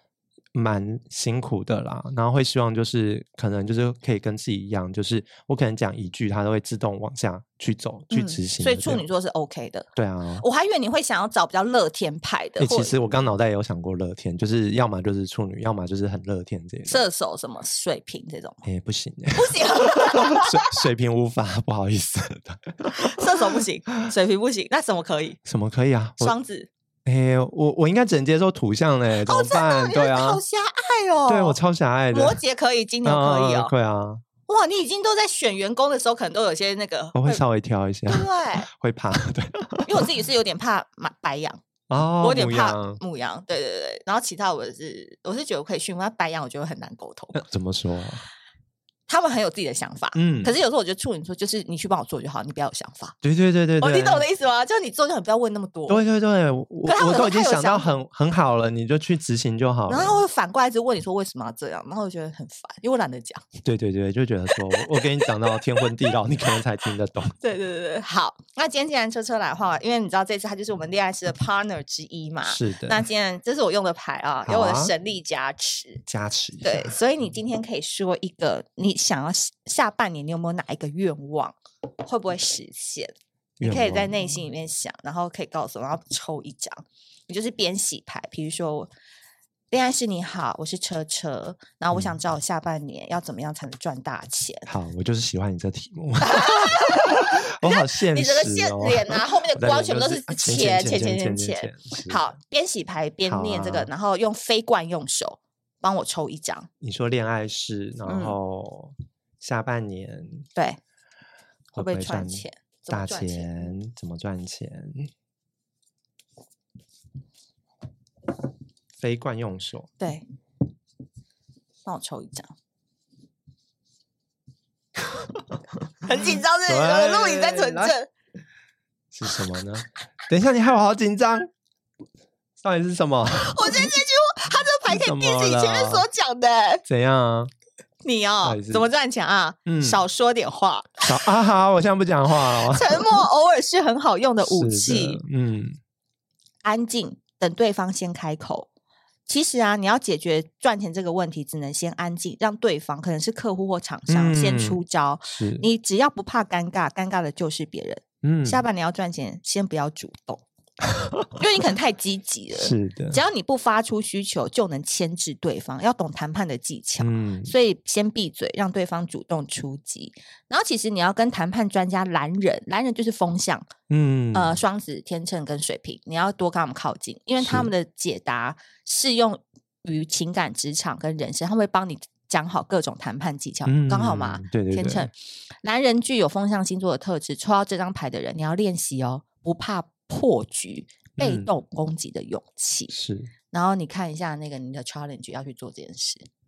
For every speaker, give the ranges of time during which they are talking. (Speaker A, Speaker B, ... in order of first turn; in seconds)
Speaker A: 0.5-9.0, 10.0-10.4, 12.6-17.0, 18.6-23.6, 25.5-26.3, 27.1-30.4, 31.3-32.4, 33.0-34.2, 37.1-40.1, 41.9-43.0, 47.4-48.2, 50.1-50.5, 53.2-54.2, 55.9-60.2, 63.6-67.3, 72.5-73.1, 74.5-74.9, 76.1-76.9, 83.6-84.4, 94.7-102.2, 103.3-103.9, 106.8-110.5, 111.7-115.1, 119.0-119.9, 126.7-128.0, 129.1-131.5, 132.6-133.9, 134.9-136.1, 136.9-137.5, 138.4-138.9, 139.7-140.0, 141.0-142.9, 144.4-145.8, 154.1-155.7, 158.2-158.6, 160.8-161.3, 162.5-163.2, 167.0-167.5, 173.9-174.6, 177.4-177.7, 183.7-185.1, 191.2-191.5, 192.9-193.3
Speaker B: 8.1-9.9, 10.4-13.0, 16.9-18.7, 19.3-20.9, 22.9-25.4, 26.2-26.7, 29.2-31.6, 32.1-33.7, 34.5-37.4, 38.1-38.7, 39.9-41.6, 42.2-47.4, 49.1-53.2, 53.8-56.0, 56.9-57.9, 59.9-63.4, 64.5-65.9, 67.4-76.0, 76.6-88.9, 89.7-94.7, 96.2-106.7, 108.1-108.4, 111.7-113.8, 120.0-120.2, 121.9-122.5, 126.0-128.1, 133.4-136.8, 138.0-141.2, 142.4-145.2, 146.6-148.7, 149.3-160.4, 161.4-173.7, 174.3-185.1, 185.6-192.9, 193.5-196.3